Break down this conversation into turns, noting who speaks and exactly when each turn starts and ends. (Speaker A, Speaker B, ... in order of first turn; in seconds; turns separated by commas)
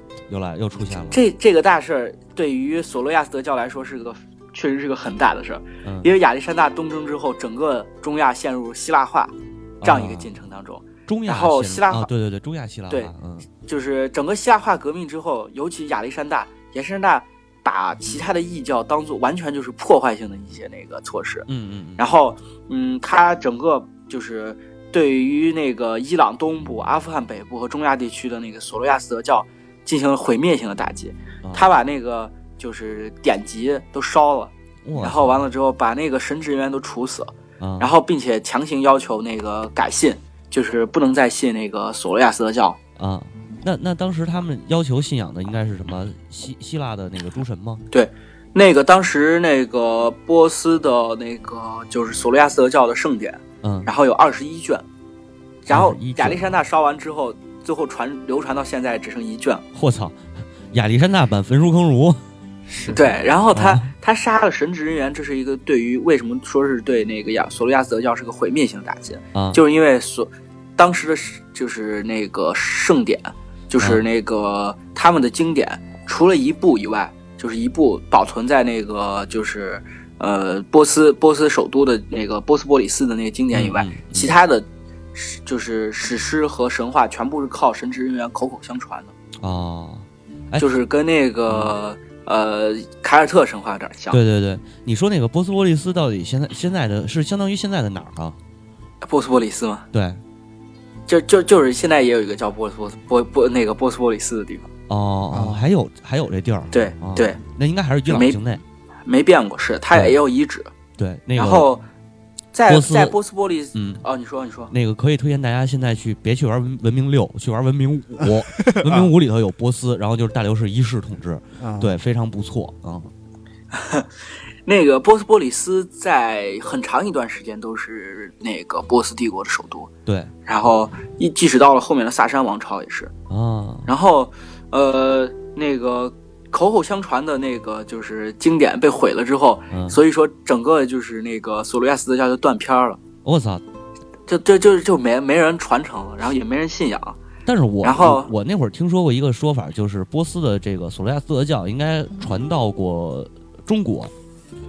Speaker A: 0.3-1.2, Speaker B: 1.1-12.1, Speaker A: 5.8-6.1, Speaker A: 9.8-10.3, Speaker A: 11.1-13.5, Speaker B: 12.9-21.5, Speaker A: 21.5-22.0, Speaker B: 22.0-42.8, Speaker A: 31.4-31.7, Speaker A: 34.8-35.4, Speaker A: 37.6-37.9, Speaker A: 43.0-47.8, Speaker B: 47.9-54.8, Speaker A: 53.6-53.9, Speaker B: 55.6-59.6, Speaker A: 55.7-56.5, Speaker A: 59.7-60.2, Speaker A: 60.7-62.2, Speaker C: 62.6-63.2, Speaker B: 62.9-89.1, Speaker A: 63.5-63.9, Speaker A: 69.3-69.6, Speaker A: 73.8-74.0, Speaker A: 83.5-84.3, Speaker A: 89.4-90.7, Speaker B: 90.6-94.2, Speaker A: 91.5-91.7, Speaker A: 94.1-98.4, Speaker B: 99.0-99.8, Speaker A: 99.9-100.2, Speaker B: 101.1-104.7, Speaker A: 104.9-108.6, Speaker C: 105.3-105.6, Speaker B: 106.7-107.4, Speaker B: 108.1-108.4, Speaker B: 109.0-110.7, Speaker A: 109.9-110.2, Speaker A: 111.0-111.7, Speaker B: 111.4-111.8, Speaker B: 112.5-114.7, Speaker A: 112.7-113.2, Speaker A: 113.7-114.0, Speaker A: 114.7-123.1, Speaker C: 118.2-119.1, Speaker C: 121.6-121.9, Speaker B: 123.7-124.1, Speaker B: 124.7-129.9, Speaker A: 130.1-130.3, Speaker B: 130.4-133.1, Speaker A: 133.3-133.9, Speaker B: 133.9-143.0, Speaker A: 139.7-140.0, Speaker A: 143.2-143.6, Speaker B: 144.3-147.2, Speaker A: 147.4-154.1, Speaker B: 147.8-148.3